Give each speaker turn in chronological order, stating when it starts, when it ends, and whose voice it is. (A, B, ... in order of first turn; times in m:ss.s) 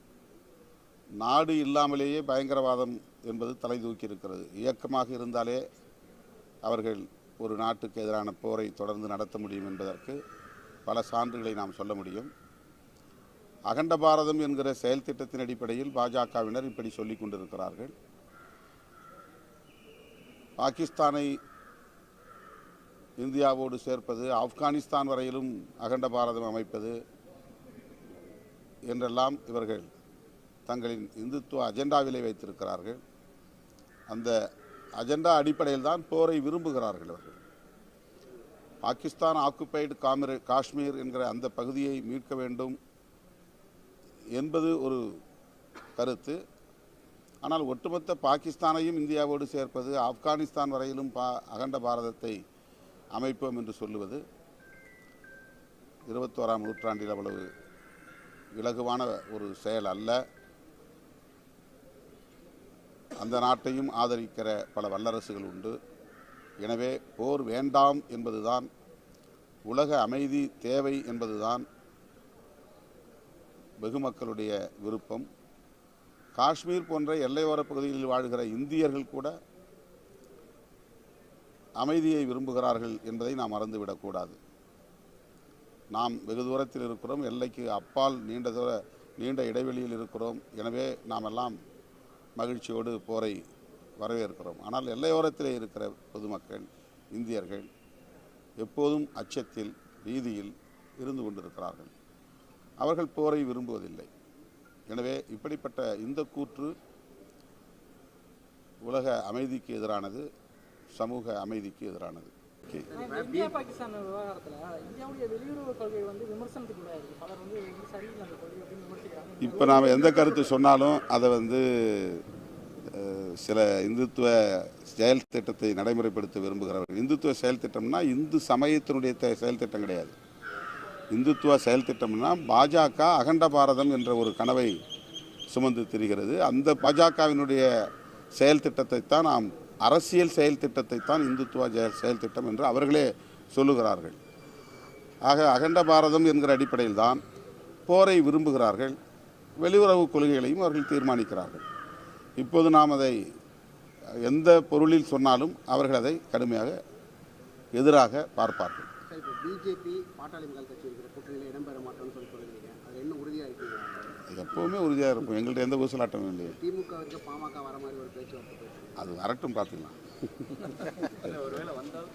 0:01.2-0:05.6 A
0:06.6-0:10.2 A
0:10.8-0:12.3 A
0:13.7-0:17.9 A
0:20.6-0:21.3 A
0:23.2-0:27.0 A
0:28.9-0:29.9 A
0:30.6-0:33.0 A
0:34.1-0:34.3 A
0:35.0-0:37.4 A
0:38.8-0:42.8 A
0:44.3-0:45.0 A
0:46.0-0:46.4 A
0:47.4-0:52.4 A
0:53.1-0:54.2 A
0:56.1-0:57.5 A
0:58.6-1:00.2 A
1:03.2-1:05.8 A
1:06.6-1:08.7 A
1:09.7-1:11.6 A
1:13.8-1:15.3 A
1:16.4-1:19.3 A
1:21.8-1:24.4 A
1:25.9-1:31.6 A
1:32.4-1:33.4 A
1:34.0-1:37.7 A
1:38.6-1:41.9 A
1:42.8-1:44.1 A
1:44.9-1:46.7 A
1:48.8-1:50.2 A
1:50.9-1:52.9 A
1:52.9-1:53.6 B
1:52.9-2:00.6 C
1:59.4-2:02.2 A
2:02.9-2:10.1 A
2:11.1-2:14.8 A
2:15.5-2:17.6 A
2:18.4-2:24.2 A
2:25.3-2:27.2 A
2:27.9-2:29.0 A
2:29.6-2:31.6 A
2:32.4-2:33.2 A
2:34.2-2:36.8 A
2:37.7-2:38.9 A
2:39.1-2:44.2 B
2:44.3-2:46.6 A
2:46.5-2:49.0 B
2:49.0-2:51.5 A